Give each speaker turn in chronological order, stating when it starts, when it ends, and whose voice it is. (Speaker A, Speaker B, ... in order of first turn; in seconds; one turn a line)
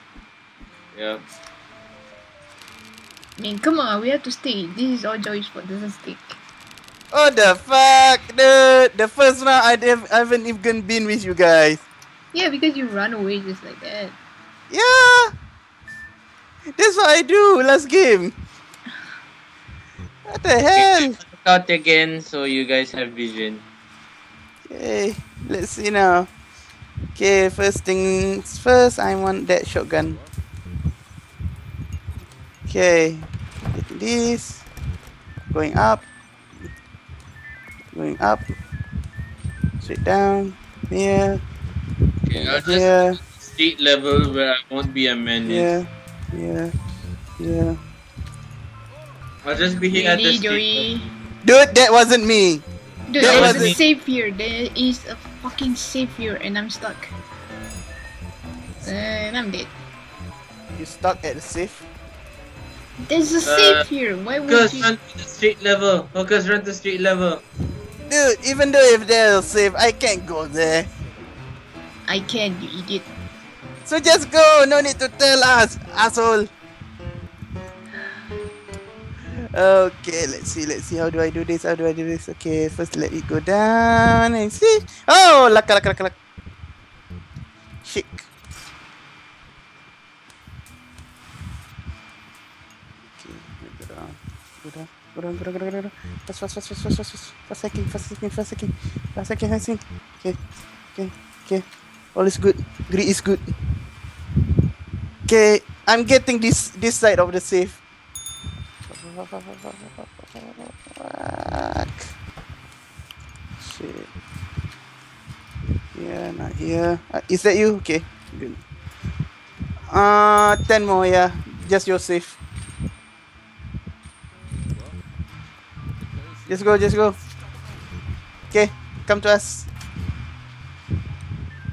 Speaker A: 0.9-1.2
Speaker B: 3.4-6.4
Speaker C: 7.1-11.8
Speaker B: 12.3-14.2
Speaker C: 14.7-15.3
Speaker C: 16.8-18.3
Speaker C: 20.3-21.2
Speaker A: 20.7-23.6
Speaker C: 24.7-26.3
Speaker C: 27.2-30.2
Speaker C: 32.7-34.6
Speaker C: 35.5-36.1
Speaker C: 37.9-38.5
Speaker C: 39.8-41.4
Speaker A: 42.2-45.8
Speaker C: 42.4-43.2
Speaker C: 45.5-46.7
Speaker C: 47.4-47.8
Speaker A: 49.4-50.9
Speaker B: 49.9-51.1
Speaker C: 51.4-52.6
Speaker B: 53.1-57.1
Speaker C: 53.2-53.8
Speaker A: 53.2-53.8
Speaker B: 58.8-59.7
Speaker C: 60.8-61.8
Speaker B: 63.0-64.9
Speaker A: 63.5-63.9
Speaker A: 64.5-67.4
Speaker C: 68.1-70.9
Speaker B: 72.1-73.1
Speaker C: 73.9-76.5
Speaker C: 79.5-86.1
Speaker C: 87.8-88.3
Speaker C: 93.2-100.4
Speaker C: 101.0-101.6
Speaker C: 102.2-103.5
Speaker C: 105.3-107.8
Speaker C: 108.9-112.1
Speaker C: 113.6-114.1
Speaker C: 116.0-118.6
Speaker C: 119.9-122.4
Speaker C: 126.5-127.2
Speaker C: 128.5-129.7